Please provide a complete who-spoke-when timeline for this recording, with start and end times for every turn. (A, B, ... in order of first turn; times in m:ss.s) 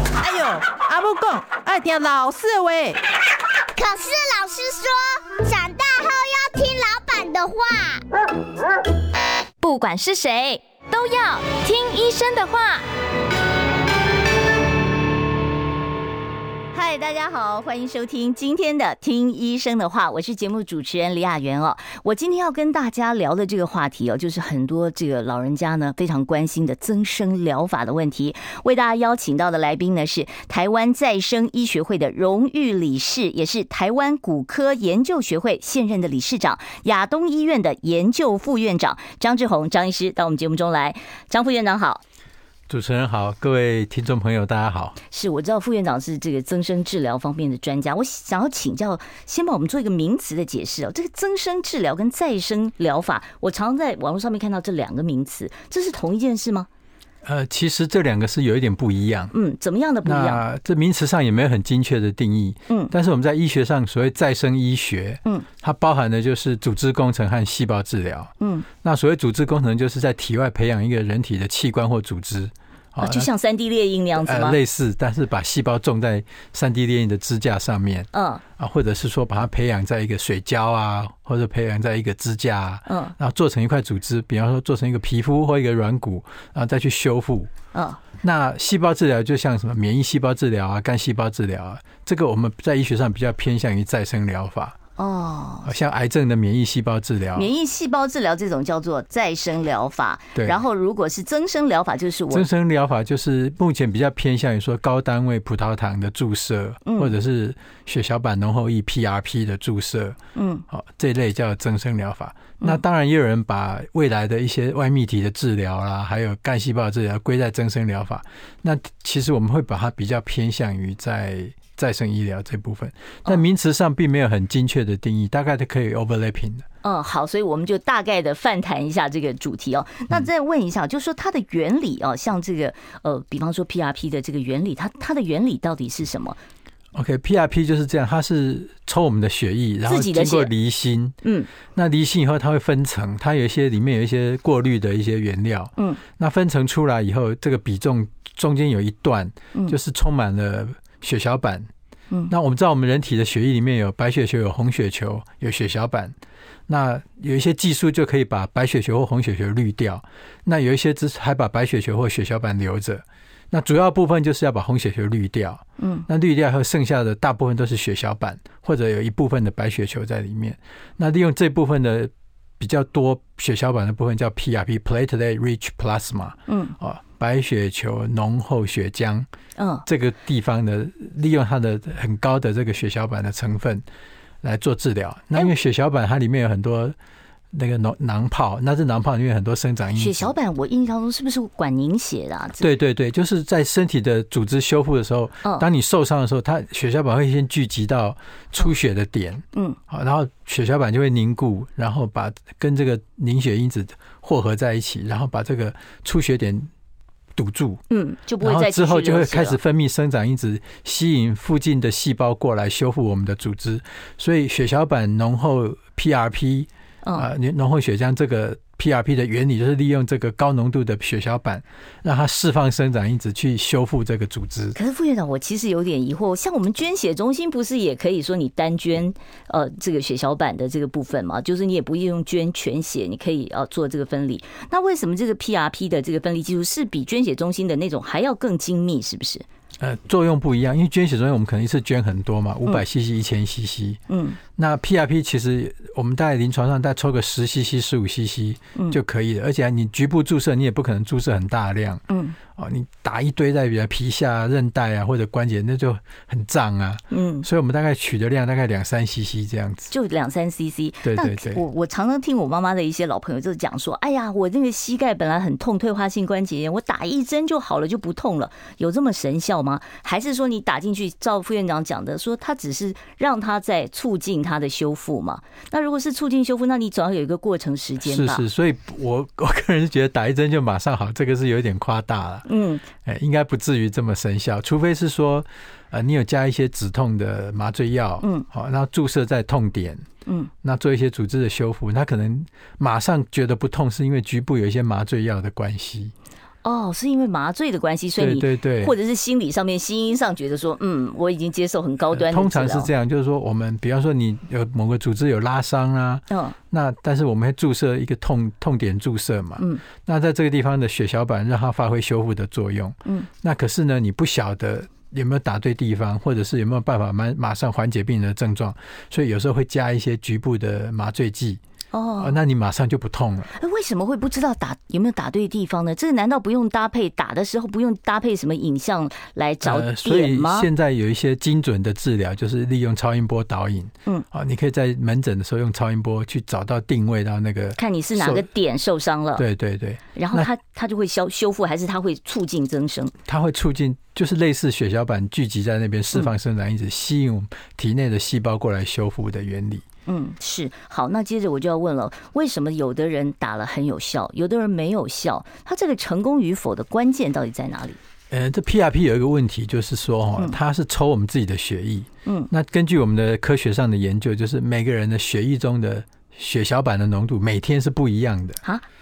0:00.2-0:03.0 A
0:03.7-0:08.0 B
0:09.6-0:12.8 C
0:16.7-0:42.0 C
0:42.7-0:45.0 D
0:45.1-0:56.7 C
0:57.2-0:59.3 D
0:59.3-1:00.4 C
1:00.0-1:13.3 D
1:08.4-1:08.7 C
1:13.0-1:14.6 C
1:14.1-1:27.5 D
1:18.1-1:18.4 C
1:22.9-1:23.1 C
1:27.7-1:28.0 C
1:28.2-1:34.8 D
1:35.0-1:35.7 C
1:35.6-1:37.5 D
1:37.3-1:42.5 C
1:40.3-1:40.6 D
1:42.3-2:06.6 D
1:46.8-1:47.1 C
1:50.3-1:50.6 C
2:06.8-2:16.4 C
2:16.9-2:21.2 D
2:19.8-2:20.5 C
2:21.2-2:21.5 C
2:21.7-2:31.7 D
2:32.3-2:36.2 D
2:36.7-2:59.3 D
2:45.8-2:46.1 C
2:56.5-2:56.7 C
2:59.6-2:59.8 C
2:59.8-3:03.8 D
3:04.4-3:07.0 D
3:07.5-3:10.3 D
3:10.0-3:12.6 C
3:12.6-3:26.7 D
3:27.4-3:27.8 D
3:27.9-3:29.6 C
3:28.4-3:44.8 D
3:44.7-3:59.4 C
3:59.8-4:04.0 D
4:04.1-4:04.4 C
4:04.6-4:19.9 D
4:12.1-4:12.4 C
4:17.1-4:17.5 C
4:19.9-4:38.4 C
4:21.0-4:21.6 D
4:38.0-4:42.5 D
4:42.4-4:42.8 C
4:43.0-4:50.0 D
4:48.2-4:48.4 C
4:50.2-4:50.5 C
4:50.6-4:56.1 D
4:56.6-5:02.9 C
4:58.2-4:59.0 D
5:02.1-5:21.6 D
5:06.3-5:06.6 C
5:09.6-5:09.8 C
5:21.9-5:22.4 C
5:22.2-5:23.5 D
5:23.5-5:30.7 C
5:29.6-5:38.4 D
5:37.8-5:39.4 C
5:39.4-5:40.5 D
5:40.2-5:43.1 C
5:43.3-5:49.8 D
5:50.1-5:58.0 C
5:58.3-6:08.6 D